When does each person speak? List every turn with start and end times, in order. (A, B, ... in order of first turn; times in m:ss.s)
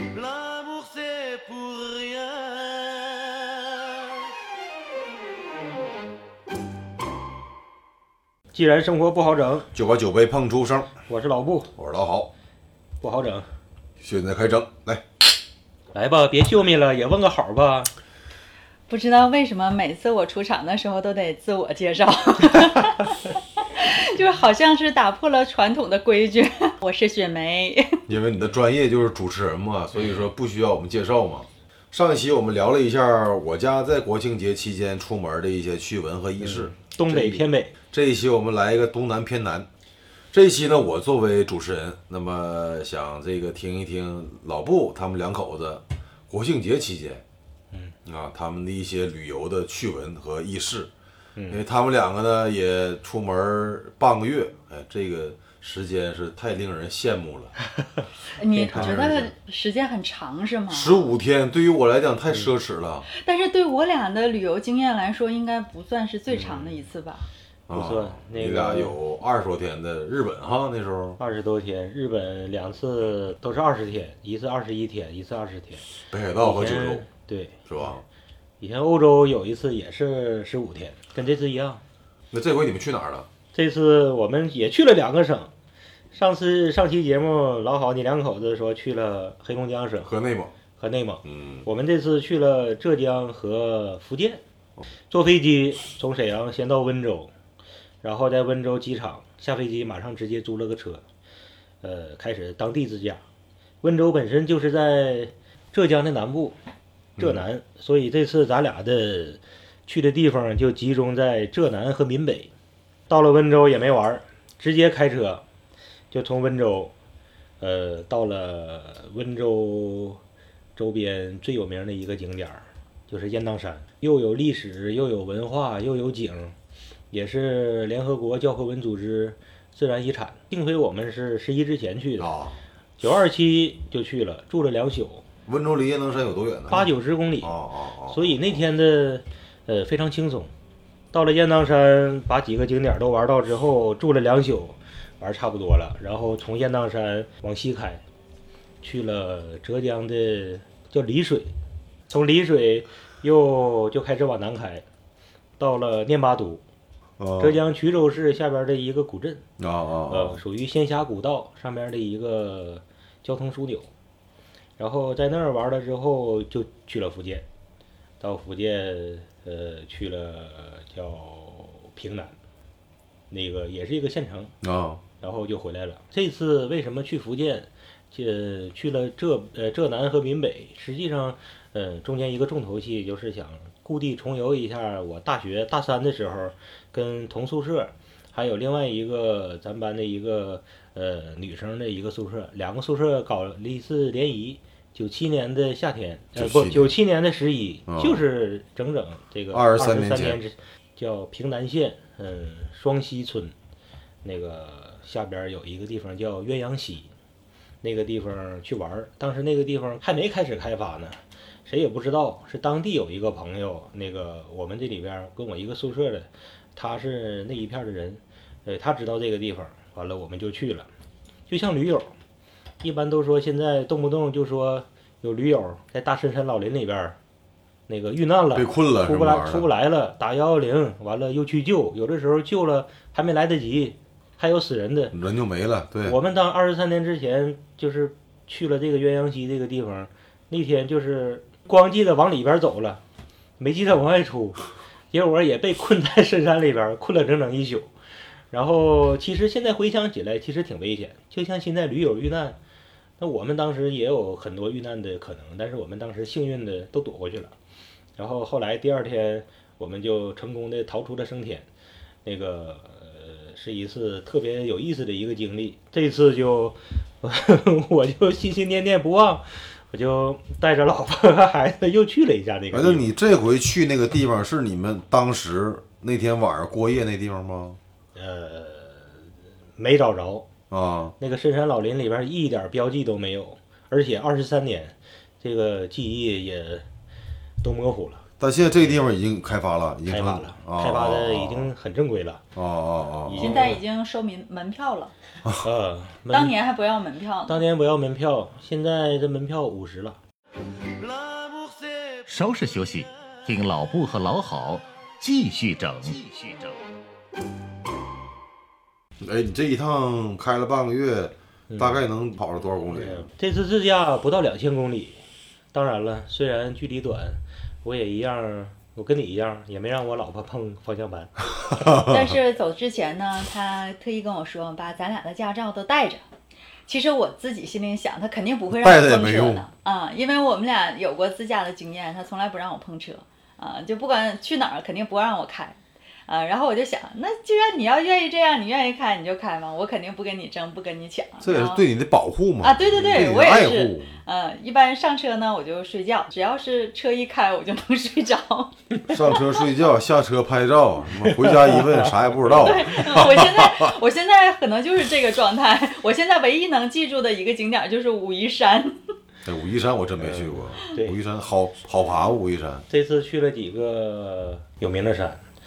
0:00.2-0:02.9 A
0:08.5-0:09.7 B
0:09.7-0:10.9 C
0:11.1-0:11.7 B
0:11.8-0:12.3 C
0:13.0-0:13.5 B
0:14.0-0:15.0 C
0:15.9-0:17.9 B
0:18.9-0:28.0 D
0:28.1-0:39.7 C
0:36.4-0:37.7 B
0:40.3-0:47.2 C
0:48.0-0:50.9 C
0:51.4-0:51.6 B
0:51.5-0:57.6 C
0:58.4-1:01.1 D
0:58.5-0:59.3 C
0:58.6-0:59.0 B
1:00.7-1:03.1 C
1:03.2-1:07.3 D
1:06.3-1:06.8 B
1:07.7-1:11.2 C
1:07.7-1:09.0 B
1:11.2-1:15.9 B
1:16.1-1:17.1 C
1:16.4-1:17.6 B
1:17.7-1:18.0 C
1:18.6-1:21.8 B
1:22.3-1:23.3 C
1:23.5-1:25.5 B
1:26.1-1:30.1 B
1:30.0-1:30.5 C
1:30.8-1:34.4 B
1:31.2-1:31.7 C
1:35.1-1:37.3 B
1:38.0-1:41.0 B
1:41.8-1:43.2 B
1:43.8-1:46.6 B
1:47.2-1:47.5 C
1:47.2-1:52.5 B
1:53.1-1:55.4 B
1:56.1-1:56.9 B
1:57.6-2:00.2 B
2:00.8-2:06.6 B
2:07.1-2:12.3 B
2:12.2-2:12.6 C
2:13.0-2:15.2 B
2:15.5-2:16.9 C
2:16.7-2:17.5 B
2:17.4-2:18.6 C
2:18.1-2:20.5 B
2:21.1-2:28.0 B
2:28.8-2:31.5 B
2:32.1-2:34.8 B
2:35.6-2:36.6 B
2:37.2-2:37.6 C
2:37.4-2:39.4 B
2:39.6-2:40.4 C
2:40.1-2:43.9 B
2:44.8-2:47.5 B
2:48.2-2:52.4 B
2:53.3-2:54.6 B
2:54.6-2:55.0 C
2:55.2-3:23.5 B
3:16.4-3:17.0 C
3:17.9-3:18.2 C
3:19.5-3:20.4 C
3:24.2-3:27.1 B
3:27.8-3:40.9 B
3:41.5-3:42.1 B
3:42.8-3:47.2 B
3:47.9-3:55.2 B
3:48.6-3:49.7 C
3:55.1-3:56.2 C
3:56.0-4:03.0 B
4:03.6-4:07.9 B
4:08.5-4:12.6 B
4:13.2-4:17.6 B
4:18.2-4:21.7 B
4:22.2-4:33.1 B
4:32.7-4:37.8 C
4:38.2-4:39.3 B
4:39.8-4:40.5 B
4:40.7-4:41.1 C
4:41.2-4:46.8 B
4:47.6-4:48.2 B
4:48.4-4:51.7 C
4:50.1-4:52.4 B
4:52.6-4:53.7 C
4:53.3-4:53.8 B
4:53.4-4:55.1 D
4:55.6-4:56.6 B
4:56.3-4:57.6 D
4:57.5-5:00.2 B
5:01.3-5:01.8 A
5:02.2-5:06.8 E
5:09.2-5:13.3 C
5:11.7-5:12.0 B
5:12.9-5:15.2 B
5:15.7-5:22.0 B
5:21.8-5:22.3 C
5:22.0-5:26.2 D
5:26.9-5:41.8 D
5:28.7-5:29.7 C
5:41.4-5:44.2 C
5:42.6-5:48.8 D
5:49.1-5:54.0 C
5:49.3-5:49.6 D
5:51.2-5:53.1 B
5:52.5-5:59.0 D
5:59.4-6:02.8 C
6:00.2-6:01.2 B
6:02.9-6:05.4 B